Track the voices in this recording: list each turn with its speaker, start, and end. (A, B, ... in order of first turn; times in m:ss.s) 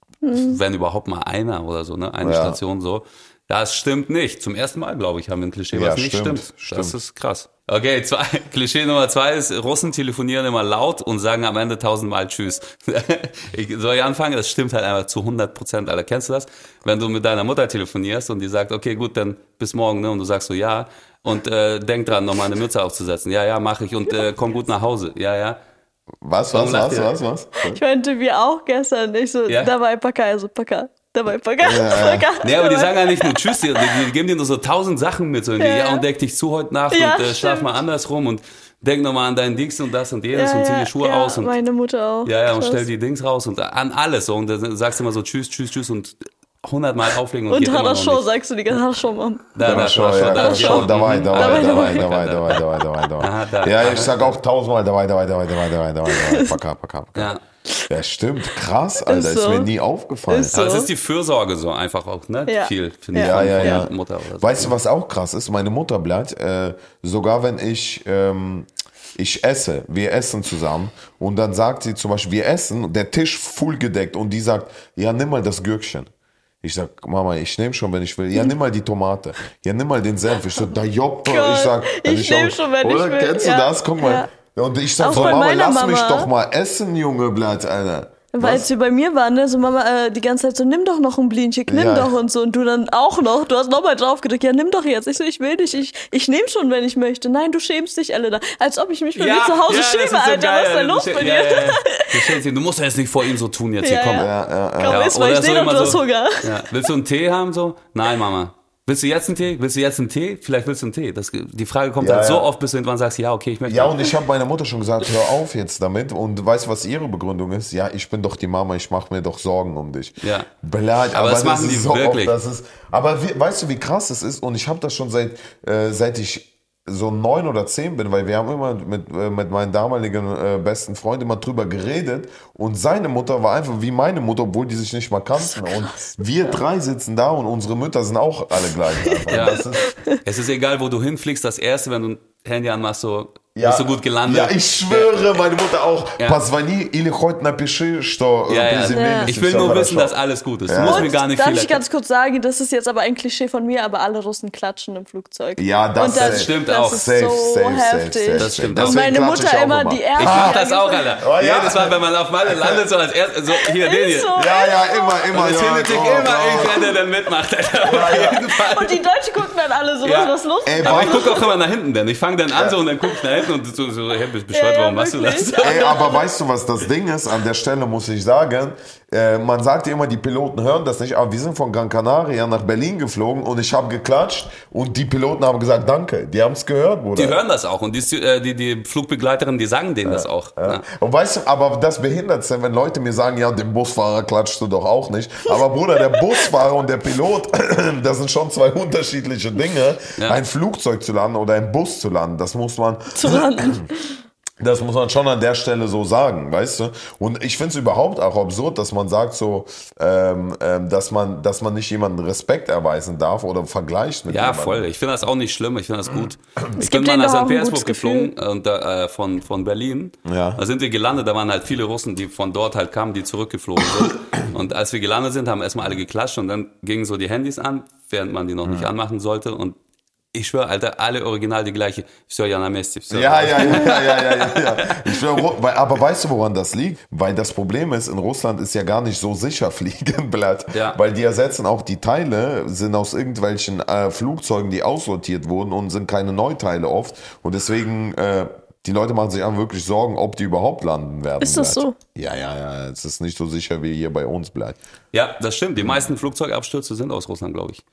0:00.2-0:00.6 A
0:00.3-0:25.6 B
0:02.2-0:02.6 C
0:05.7-0:07.0 C
0:26.2-0:27.8 C
0:26.5-0:27.1 B
0:27.7-0:34.1 A
0:31.6-0:32.3 C
0:32.4-0:41.5 B
0:35.6-0:36.0 A
0:36.9-0:37.7 A
0:40.3-0:42.9 A
0:42.2-0:48.3 B
0:47.5-0:52.1 A
0:49.6-0:52.6 B
0:49.6-0:57.4 C
0:53.2-0:54.3 B
0:56.1-0:56.6 A
0:57.2-0:57.4 B
0:57.9-1:00.5 C
0:59.0-0:59.7 A
1:00.3-1:00.9 A
1:00.5-1:04.7 B
1:02.5-1:03.9 A
1:03.2-1:16.1 C
1:16.6-1:28.7 C
1:21.2-1:24.3 A
1:25.0-1:26.3 A
1:25.1-1:25.4 B
1:28.3-1:42.4 A
1:31.7-1:32.1 C
1:39.2-1:44.3 B
1:43.8-1:46.7 A
1:44.2-1:45.1 C
1:44.9-1:54.1 B
1:52.0-1:52.5 C
1:53.7-2:19.9 C
2:00.2-2:00.5 B
2:01.1-2:02.3 B
2:19.0-2:20.2 A
2:19.3-2:19.7 B
2:20.2-2:25.3 B
2:23.6-2:30.1 C
2:28.5-2:31.8 B
2:28.9-2:29.4 A
2:30.7-2:31.1 C
2:30.8-2:41.2 A
2:35.6-2:40.6 C
2:36.1-2:37.0 B
2:38.4-2:39.1 B
2:40.2-2:44.4 B
2:41.2-2:42.8 C
2:43.5-2:45.3 A
2:44.4-2:46.8 C
2:45.3-2:49.0 B
2:47.8-2:48.4 C
2:48.1-2:51.5 A
2:50.0-2:56.1 B
2:50.6-2:51.3 C
2:54.5-2:56.2 A
2:55.6-3:07.4 C
3:07.2-3:10.8 B
3:10.0-3:23.8 C
3:23.2-3:24.1 A
3:24.6-3:34.9 C
3:34.3-3:49.8 B
3:36.8-3:38.3 A
3:40.2-3:40.6 C
3:50.3-3:55.4 B
3:53.1-4:14.8 C
4:00.7-4:01.0 B
4:11.4-4:12.0 A
4:15.1-4:17.8 B